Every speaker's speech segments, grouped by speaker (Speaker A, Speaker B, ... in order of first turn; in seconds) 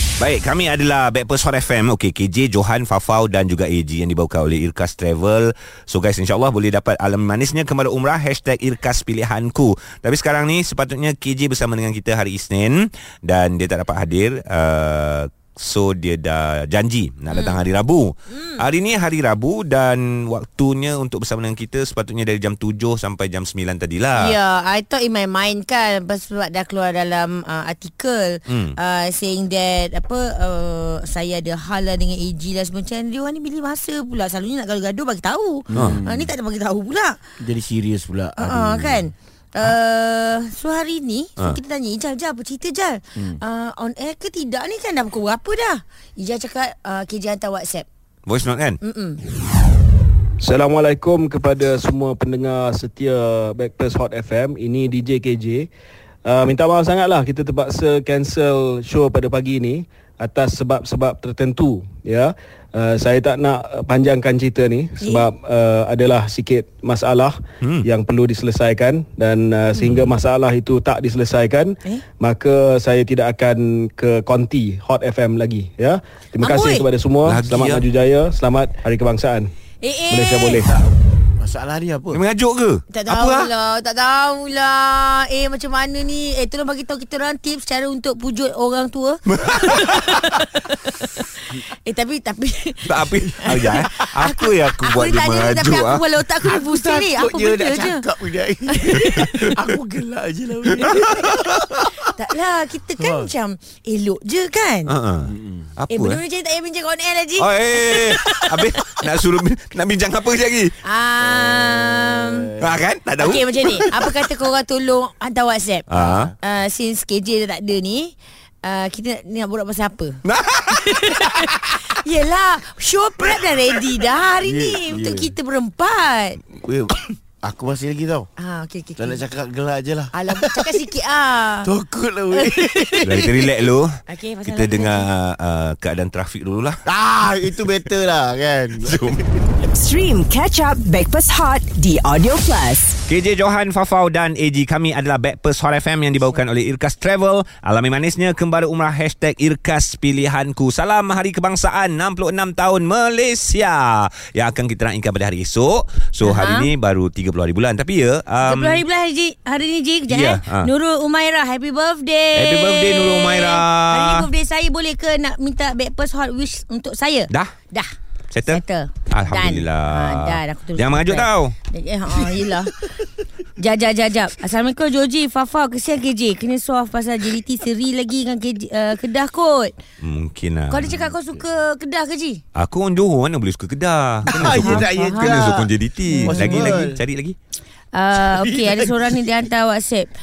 Speaker A: 0.2-24.4, 35.7-36.0, 48.3-48.8, 67.6-67.9, 77.2-77.8, 82.1-83.5, 89.3-90.3, 92.9-96.0, 99.0-99.5, 100.8-101.8, 104.9-106.2, 107.4-110.8, 112.6-114.2, 115.9-116.3, 120.3-121.5, 133.0-133.9, 134.5-136.8, 138.8-139.2, 143.1-158.8, 160.1-160.7, 162.4-164.3, 168.3-171.5, 180.0-181.0, 182.6-187.4
Speaker B: 17.3-17.6, 18.3-18.6, 24.2-37.2, 38.4-47.9, 48.8-49.2, 65.0-65.3, 76.4-76.9, 79.8-80.7, 82.9-98.0, 98.7-99.5, 102.1-104.9, 105.9-108.7, 110.8-112.5, 113.2-115.9, 116.4-120.2, 120.7-126.4, 128.4-129.2, 130.1-131.7, 132.3-133.1, 134.1-135.1, 156.2-156.7, 158.4-167.9, 168.5-172.8, 173.6-179.8, 180.7-182.4, 184.5-185.5, 186.1-186.8, 187.9-190.1
Speaker C: 35.7-36.3, 37.4-39.1, 81.4-82.2, 96.4-102.1, 103.0-103.3, 105.2-105.7, 111.2-112.8, 115.9-116.4, 124.4-125.3, 126.6-128.3, 129.0-130.7, 131.6-133.5, 136.9-139.3, 180.9-181.4, 184.3-185.7, 186.2-187.0, 188.1-189.3
Speaker D: 50.4-55.7, 56.2-79.5, 80.1-80.8
Speaker E: 139.8-142.9